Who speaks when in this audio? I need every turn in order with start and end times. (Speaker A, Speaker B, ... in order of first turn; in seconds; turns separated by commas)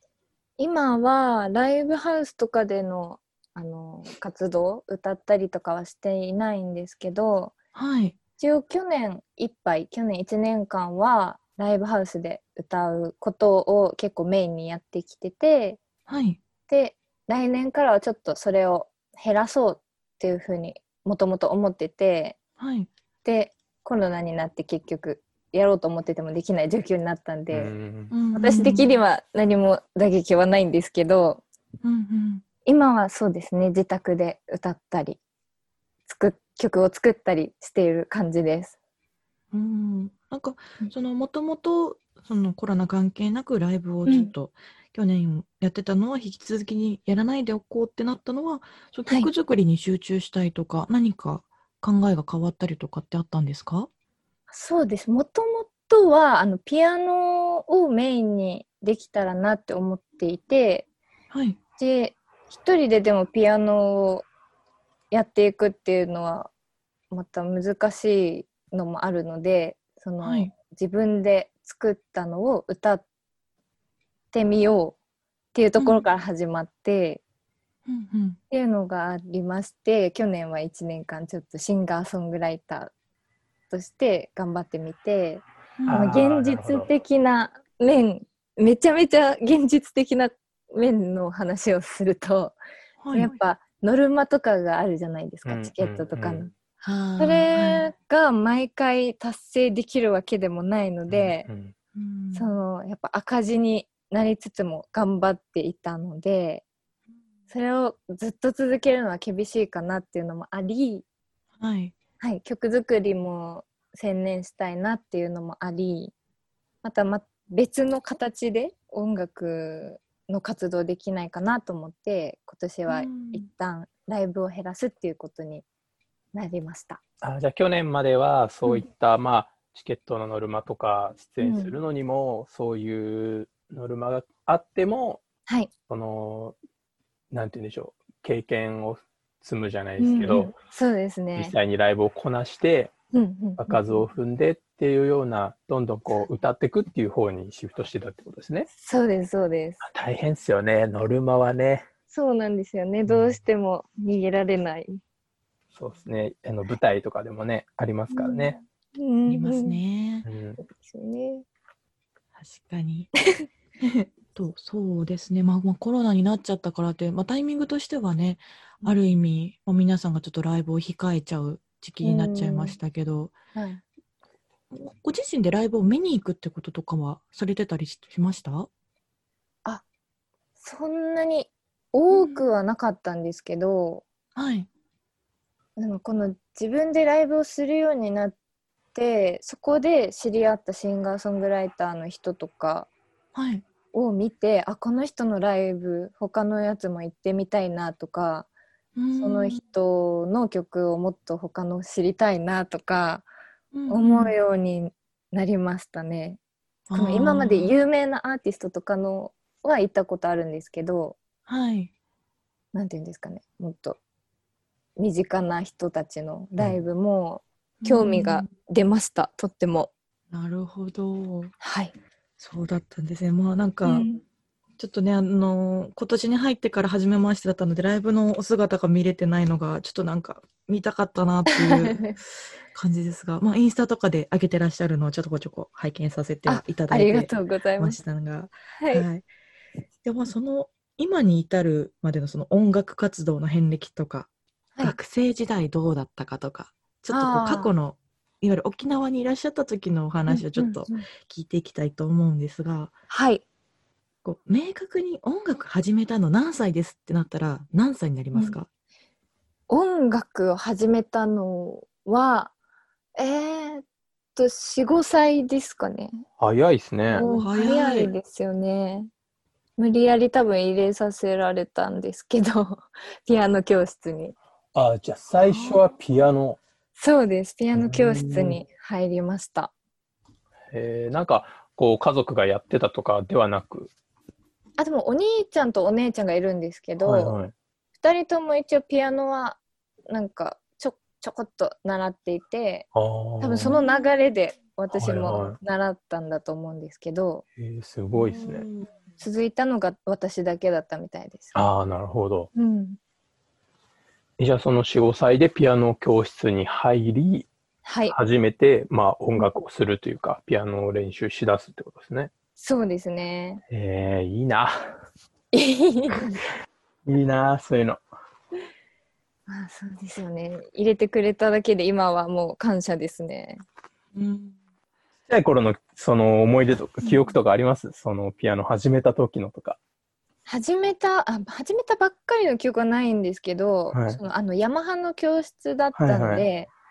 Speaker A: 0.6-7.5, Speaker B: 7.8-8.2, Speaker A: 8.4-15.8, Speaker B: 16.1-16.4, Speaker A: 16.7-22.4, Speaker B: 22.6-22.9, Speaker A: 23.2-27.7, Speaker C: 27.5-28.1, Speaker B: 28.1-28.9, Speaker A: 28.3-31.4, Speaker B: 31.8-32.4, Speaker A: 32.6-35.2, Speaker A: 36.1-38.8, Speaker B: 39.5-53.9, Speaker A: 44.1-44.3, Speaker A: 54.5-60.9, Speaker B: 61.3-61.6, Speaker A: 61.8-64.2, Speaker A: 65.1-66.5, Speaker A: 67.1-73.0, Speaker B: 70.2-70.5, Speaker A: 74.3-75.0, Speaker A: 75.5-77.2, Speaker B: 75.8-76.1, Speaker B: 77.9-78.4, Speaker A: 78.5-82.9, Speaker A: 83.7-92.6, Speaker B: 85.8-86.1, Speaker C: 85.9-86.9, Speaker B: 93.0-93.4, Speaker A: 93.1-96.5, Speaker C: 95.5-96.5, Speaker B: 96.8-97.9, Speaker A: 97.2-101.5, Speaker C: 101.1-101.7, Speaker B: 102.0-102.6, Speaker A: 102.3-106.6, Speaker A: 107.5-111.0, Speaker B: 111.6-111.9, Speaker A: 112.2-116.1, Speaker A: 116.8-125.7, Speaker B: 122.9-123.5, Speaker A: 126.3-127.0, Speaker C: 127.2-135.2, Speaker A: 131.4-131.8, Speaker C: 135.9-136.6, Speaker C: 137.3-140.6, Speaker A: 140.0-141.6, Speaker C: 141.4-142.9, Speaker A: 143.1-144.0, Speaker C: 143.6-148.7, Speaker A: 148.8-149.9, Speaker C: 149.8-151.9, Speaker A: 152.1-155.0, Speaker C: 153.1-153.4, Speaker C: 155.7-158.6, Speaker A: 158.1-159.8, Speaker B: 159.3-160.3, Speaker C: 160.2-160.6, Speaker A: 160.6-161.4, Speaker B: 162.4-163.1, Speaker B: 163.8-173.3, Speaker A: 172.0-172.8, Speaker A: 173.5-173.8, Speaker B: 174.7-178.7, Speaker A: 180.6-184.1, Speaker B: 182.1-182.5, Speaker B: 184.4-184.7, Speaker A: 185.8-188.4, Speaker A: 188.9-192.9, Speaker B: 193.3-193.6, Speaker A: 193.9-198.5, Speaker B: 199.0-199.6, Speaker A: 199.2-203.3, Speaker B: 203.7-204.3, Speaker A: 203.9-206.4, Speaker B: 206.9-207.8, Speaker A: 206.9-211.2, Speaker B: 211.5-211.9, Speaker A: 212.7-214.0, Speaker A: 215.0-219.9, Speaker B: 217.8-218.5, Speaker B: 220.3-221.5, Speaker A: 221.6-221.9, Speaker B: 222.4-224.2, Speaker A: 223.9-224.2, Speaker B: 224.8-232.2, Speaker A: 231.6-232.1, Speaker B: 232.7-239.3, Speaker A: 236.5-238.0, Speaker A: 238.8-239.1, Speaker B: 240.0-244.3, Speaker B: 244.8-252.9, Speaker A: 247.1-247.7, Speaker A: 250.3-251.1, Speaker A: 253.1-253.4, Speaker B: 254.2-258.7, Speaker A: 259.7-262.5, Speaker A: 263.2-263.8, Speaker A: 264.4-266.2, Speaker C: 266.4-267.3, Speaker A: 267.1-269.1, Speaker B: 267.2-268.1, Speaker A: 269.8-274.4, Speaker C: 274.8-276.6, Speaker B: 275.5-275.8, Speaker A: 276.9-279.7, Speaker C: 277.8-278.6, Speaker C: 280.7-283.9, Speaker A: 284.8-287.4, Speaker C: 287.0-287.5, Speaker A: 288.0-292.9, Speaker C: 292.9-293.8, Speaker A: 293.4-297.4, Speaker C: 294.9-295.6, Speaker C: 297.6-298.7, Speaker B: 298.1-298.9, Speaker A: 299.2-301.7, Speaker C: 301.5-302.5, Speaker A: 302.5-303.0, Speaker C: 304.4-307.5, Speaker A: 307.8-308.2, Speaker C: 308.1-312.3, Speaker A: 312.6-313.6, Speaker C: 313.7-315.0, Speaker A: 315.5-316.4, Speaker C: 317.1-318.0, Speaker A: 319.5-323.6, Speaker B: 324.1-324.6, Speaker C: 325.3-329.8, Speaker B: 327.0-327.4, Speaker A: 330.5-336.7, Speaker C: 333.9-334.2, Speaker C: 336.0-336.5